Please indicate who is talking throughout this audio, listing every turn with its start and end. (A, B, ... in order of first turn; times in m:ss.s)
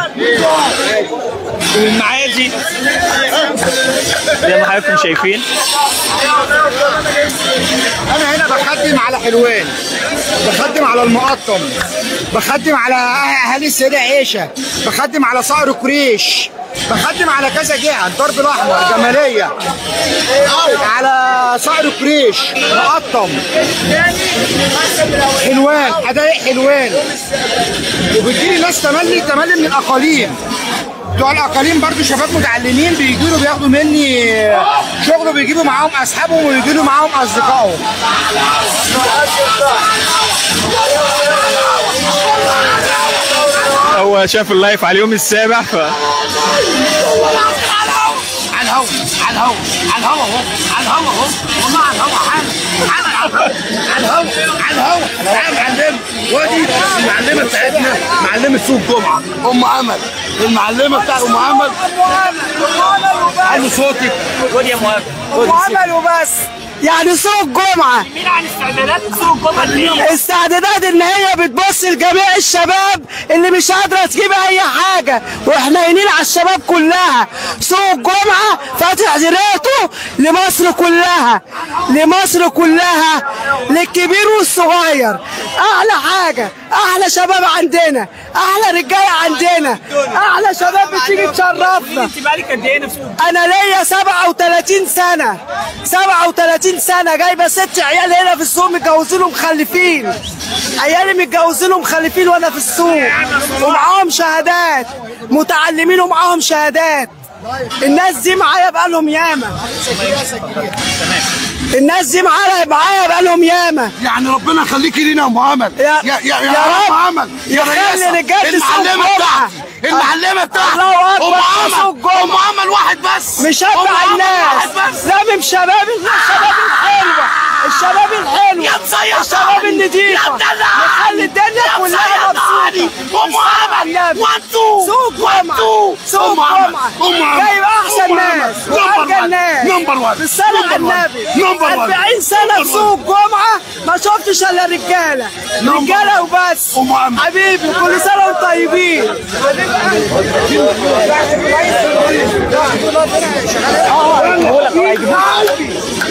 0:01.8-0:02.5 A
0:04.4-0:05.4 A
0:08.1-0:09.8 B
0:10.4-0:11.7 B
0:12.3-0:19.5 B
0:20.7-0:23.4 B
0:25.4-0:27.0 B
0:28.1-0:30.4 B
0:31.2-0:37.8 B
0:43.9-0:46.0 A
0:48.2-1:01.8 C
1:02.0-1:03.7 D
1:03.4-1:04.3 C
1:04.4-1:05.8 A
1:05.3-1:08.1 D
1:08.1-1:10.1 A
1:10.0-1:32.1 D
1:31.6-1:33.2 A
1:33.2-1:40.2 D
1:40.8-1:47.1 D
1:47.8-1:49.6 D
1:50.2-1:50.5 A
1:51.7-1:53.9 D
1:54.0-2:05.1 C
1:55.8-2:02.4 D
2:03.4-2:29.2 D
2:06.1-2:22.9 C
2:25.6-2:27.2 C
2:30.3-2:30.9 C
2:31.2-2:33.9 B
2:33.9-2:35.7 A